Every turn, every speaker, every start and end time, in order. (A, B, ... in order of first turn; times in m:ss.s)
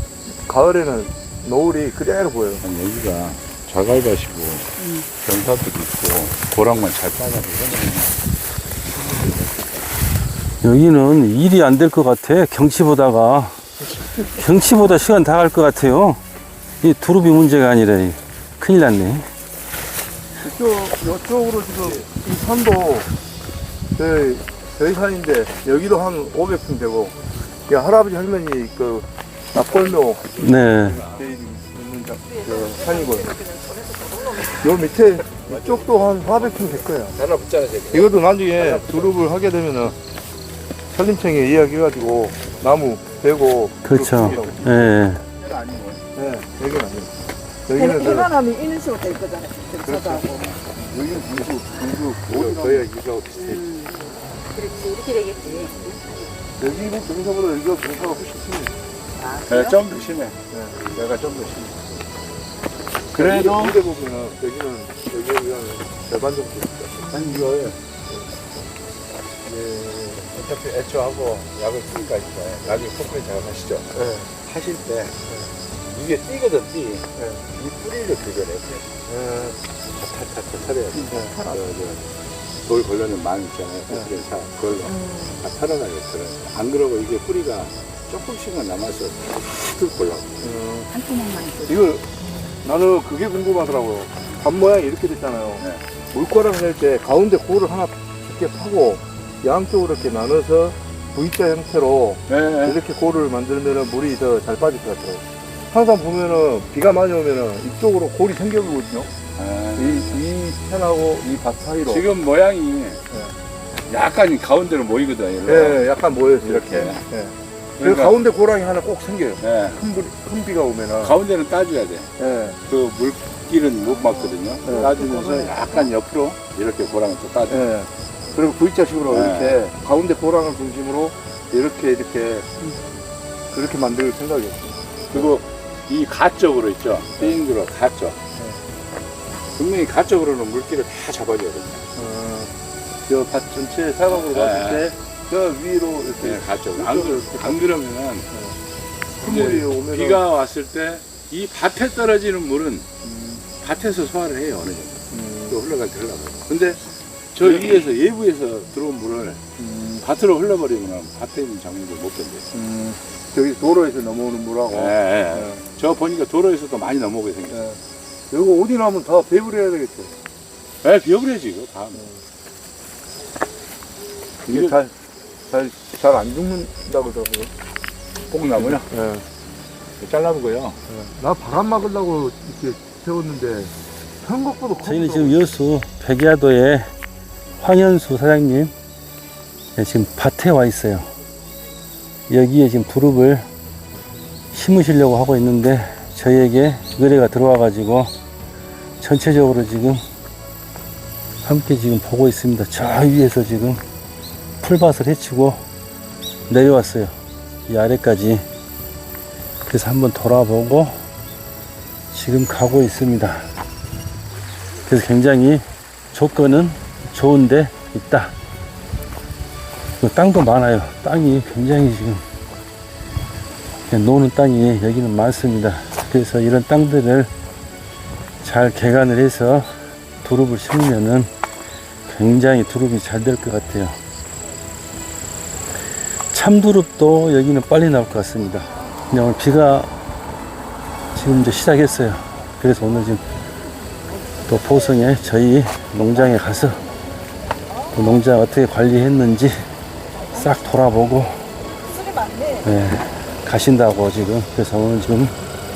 0:00.4-0:02.6 A
0:02.6-0:08.2 B
0:08.8-0:09.9 B
0:10.6-0:13.6 C
0:14.0-0:14.3 A
0:14.3-0:16.2 C
0:16.8-0:19.3 C
0:20.4-0:23.1 A
0:24.0-0:27.1 A
0:27.7-0:30.2 A
0:29.7-0:31.2 B
0:30.4-0:31.0 C
0:31.0-0:33.3 A
0:32.5-0:34.5 D
0:34.5-0:37.2 A
0:35.2-0:39.1 B
0:37.9-0:40.0 A
0:40.9-0:44.7 A
0:43.8-0:45.2 C
0:44.1-0:46.0 B
0:46.1-0:47.1 A
0:47.7-0:48.3 A
0:47.7-0:50.4 D
0:49.9-0:51.5 B
0:50.7-0:53.6 A
0:52.2-0:53.6 B
0:53.4-0:53.9 E
0:54.5-0:56.2 E
0:56.6-0:58.8 A
0:59.2-1:00.1 E
0:59.5-1:02.0 B
1:00.5-1:00.8 A
1:03.1-1:03.8 B
1:03.1-1:07.2 A
1:07.0-1:07.8 B
1:09.4-1:13.9 B
1:13.9-1:14.3 A
1:14.4-1:15.2 B
1:15.8-1:18.9 B
1:17.2-1:17.4 A
1:19.1-1:19.6 A
1:19.9-1:22.0 B
1:21.1-1:21.4 A
1:22.6-1:30.3 B
1:24.8-1:25.4 D
1:30.4-1:30.9 A
1:30.9-1:31.7 E
1:31.6-1:32.0 A
1:32.6-1:49.1 A
1:42.3-1:42.8 B
1:49.4-1:50.2 B
1:49.8-1:52.0 A
1:51.8-1:53.0 B
1:53.9-1:55.8 B
1:55.4-2:01.2 A
1:56.4-1:57.0 B
1:57.8-1:58.1 B
1:59.4-1:59.8 B
2:01.0-2:02.1 B
2:02.2-2:02.6 A
2:02.6-2:07.6 B
2:04.6-2:05.8 A
2:07.5-2:12.5 A
2:09.1-2:09.6 B
2:13.5-2:15.3 A
2:15.1-2:18.2 B
2:18.4-2:18.6 A
2:19.6-2:21.8 B
2:22.0-2:22.5 A
2:23.0-2:27.7 A
2:24.1-2:24.9 B
2:26.2-2:28.3 B
2:28.3-2:28.6 A
2:29.2-2:30.2 A
2:29.2-2:32.9 B
2:33.0-2:33.4 A
2:33.6-2:36.8 B
2:35.1-2:35.6 A
2:37.3-2:39.4 B
2:37.4-2:37.9 A
2:39.6-2:40.0 A
2:40.0-2:42.4 B
2:42.5-2:45.6 A
2:44.7-2:47.7 B
2:47.5-2:47.8 A
2:48.3-2:50.1 A
2:50.8-2:52.1 B
2:54.4-2:54.9 A
2:54.5-2:54.7 B
2:55.5-2:57.5 A
2:58.3-2:58.9 B
2:58.6-2:59.2 A
3:00.0-3:00.8 B
3:00.9-3:05.5 A
3:04.8-3:06.9 C
3:07.6-3:08.7 C
3:09.8-3:11.1 C
3:12.3-3:13.5 C
3:14.5-3:18.1 C
3:19.0-3:20.0 C
3:21.4-3:23.8 C
3:24.6-3:25.6 C
3:26.5-3:27.1 C
3:27.7-3:28.4 C
3:29.7-3:31.0 C
3:32.1-3:33.5 C
3:34.8-3:38.3 C
3:40.0-3:42.2 C
3:43.9-3:47.3 C
3:48.4-3:49.7 C
3:50.2-3:51.3 C
3:52.1-3:54.0 C
3:56.3-3:59.9 C
4:01.1-4:03.2 C
4:04.5-4:06.8 C
4:07.7-4:07.9 D
4:07.9-4:09.6 C
4:10.3-4:11.4 C
4:11.8-4:12.7 D
4:12.6-4:15.3 C